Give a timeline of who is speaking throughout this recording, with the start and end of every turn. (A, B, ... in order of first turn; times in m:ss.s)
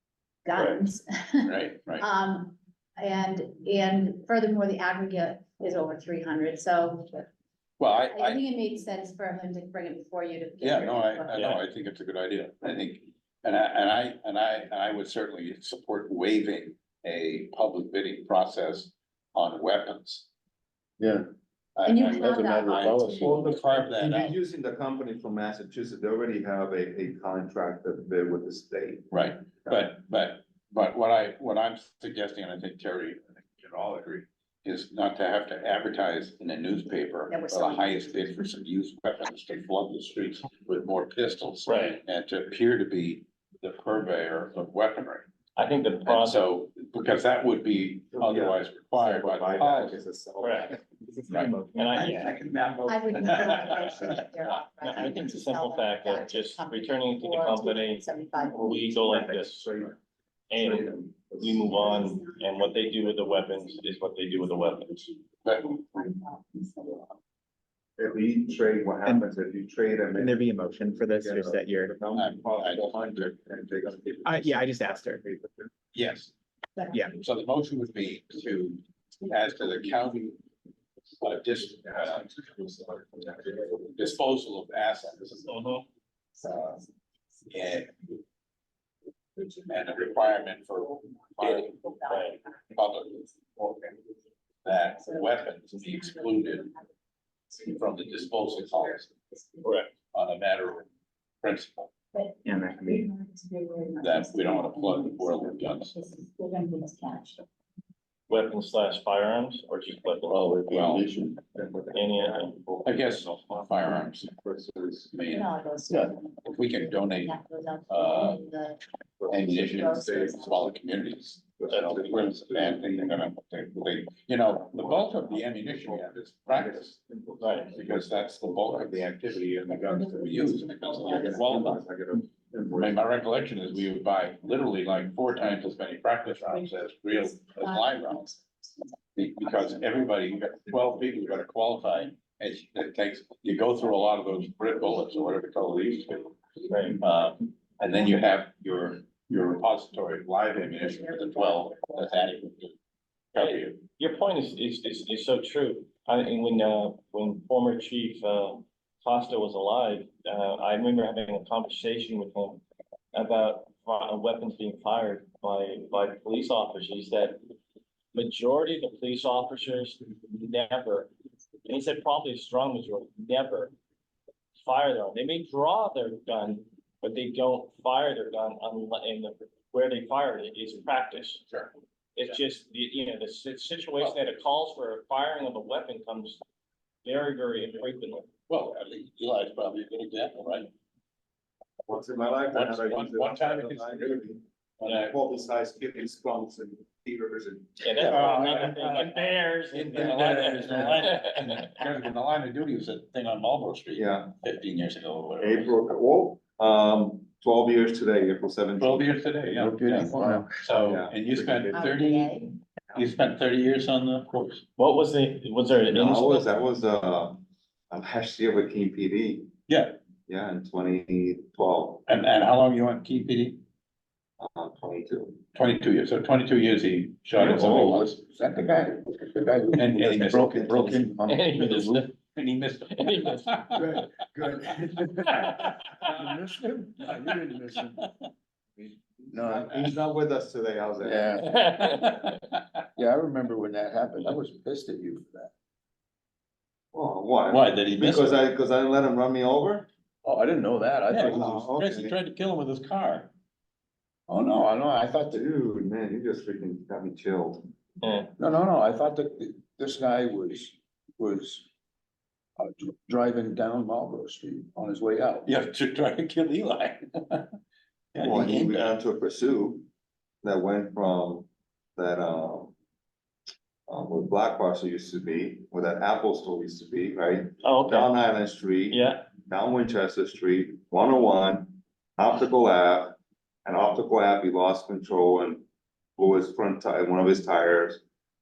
0:00.4-0:07.3 A
0:00.5-0:00.8 B
0:01.4-0:02.0 C
0:07.8-0:08.4 C
0:07.9-0:11.6 A
0:10.6-0:20.3 C
0:21.0-0:21.2 D
0:21.8-0:24.4 C
0:21.8-0:23.6 A
0:22.1-0:23.5 D
0:23.6-0:29.1 E
0:29.1-0:45.3 C
0:37.3-0:38.4 A
0:41.6-0:42.0 B
0:45.6-0:46.5 B
0:46.0-0:50.0 C
0:48.1-0:50.9 E
0:50.4-0:50.8 B
0:51.0-0:53.0 F
0:51.3-0:51.6 C
0:51.7-0:52.4 B
0:52.0-0:52.5 E
0:52.8-0:58.8 A
0:54.8-0:59.7 B
0:59.0-1:00.0 E
1:00.5-1:05.0 B
1:00.6-1:01.9 E
1:05.4-1:05.7 C
1:05.6-1:07.0 A
1:08.0-1:10.4 E
1:10.1-1:12.0 F
1:11.2-1:15.7 E
1:12.1-1:13.1 C
1:14.2-1:15.2 F
1:15.9-1:16.3 C
1:16.9-1:17.2 F
1:17.2-1:20.4 C
1:21.2-1:22.4 C
1:22.4-1:23.4 E
1:23.6-1:25.5 C
1:25.4-1:25.8 B
1:26.4-1:26.8 A
1:27.5-1:28.1 C
1:29.6-1:32.0 C
1:31.8-1:32.3 A
1:32.0-1:32.4 B
1:32.7-1:33.3 C
1:34.6-1:36.7 C
1:35.7-1:36.8 A
1:37.6-1:39.1 C
1:39.6-1:39.9 B
1:40.1-1:40.9 C
1:41.4-1:41.9 C
1:42.1-1:47.4 A
1:42.4-1:43.1 F
1:44.0-1:45.9 C
1:48.3-1:50.4 B
1:50.3-1:51.4 D
1:50.7-1:51.1 C
1:51.4-1:53.0 E
1:51.9-1:52.5 B
1:52.8-1:54.4 C
1:54.3-1:55.1 E
1:55.1-1:55.5 C
1:55.3-1:58.8 A
1:56.4-1:57.4 C
1:57.9-1:58.4 C
1:59.2-2:00.4 E
1:59.3-2:07.0 C
1:59.5-2:00.7 A
2:01.6-2:03.2 E
2:04.7-2:10.0 E
2:07.4-2:07.7 B
2:07.7-2:11.8 C
2:10.6-2:13.0 E
2:12.7-2:18.3 C
2:17.6-2:18.3 A
2:19.2-2:26.4 C
2:26.7-2:27.0 B
2:27.0-2:32.7 C
2:33.3-2:33.8 C
2:33.4-2:42.6 B
2:43.1-2:47.4 B
2:48.1-2:51.1 B
2:51.6-2:53.7 B
2:54.6-3:01.4 B
3:02.2-3:06.4 B
3:07.0-3:08.3 B
3:08.5-3:10.7 C
3:11.8-3:18.6 E
3:12.4-3:14.2 C
3:14.8-3:15.1 C
3:14.8-3:15.1 B
3:17.8-3:21.8 B
3:18.0-3:19.2 C
3:19.7-3:25.7 C
3:19.9-3:21.1 D
3:23.9-3:24.3 E
3:25.4-3:29.1 E
3:28.8-3:32.4 C
3:29.5-3:30.5 D
3:30.7-3:31.8 E
3:31.7-3:32.5 A
3:32.9-3:34.6 C
3:34.8-3:36.5 B
3:35.9-3:39.5 E
3:39.7-3:40.0 C
3:40.2-3:42.0 E
3:42.1-3:43.6 C
3:44.4-3:45.4 E
3:45.5-3:48.2 C
3:47.4-3:52.1 D
3:49.7-3:53.8 C
3:51.3-3:52.1 B
3:52.9-3:54.0 B
3:53.7-3:58.1 D
3:55.2-3:56.1 B
3:58.8-4:00.0 D
3:59.2-4:01.6 E
4:01.0-4:01.6 D
4:01.4-4:02.3 B
4:01.9-4:02.8 C
4:03.0-4:05.5 D
4:06.9-4:09.9 E
4:07.5-4:08.4 C
4:10.2-4:11.6 D
4:11.1-4:13.3 C
4:11.1-4:12.2 E
4:14.3-4:15.4 D
4:15.3-4:17.7 E
4:18.0-4:18.3 B
4:18.4-4:21.6 D
4:22.6-4:25.5 D
4:25.4-4:27.5 C
4:28.1-4:28.9 C
4:28.2-4:29.9 E
4:30.4-4:32.7 E
4:33.9-4:45.6 E
4:37.6-4:38.2 B
4:38.9-4:39.3 B
4:46.2-4:48.0 E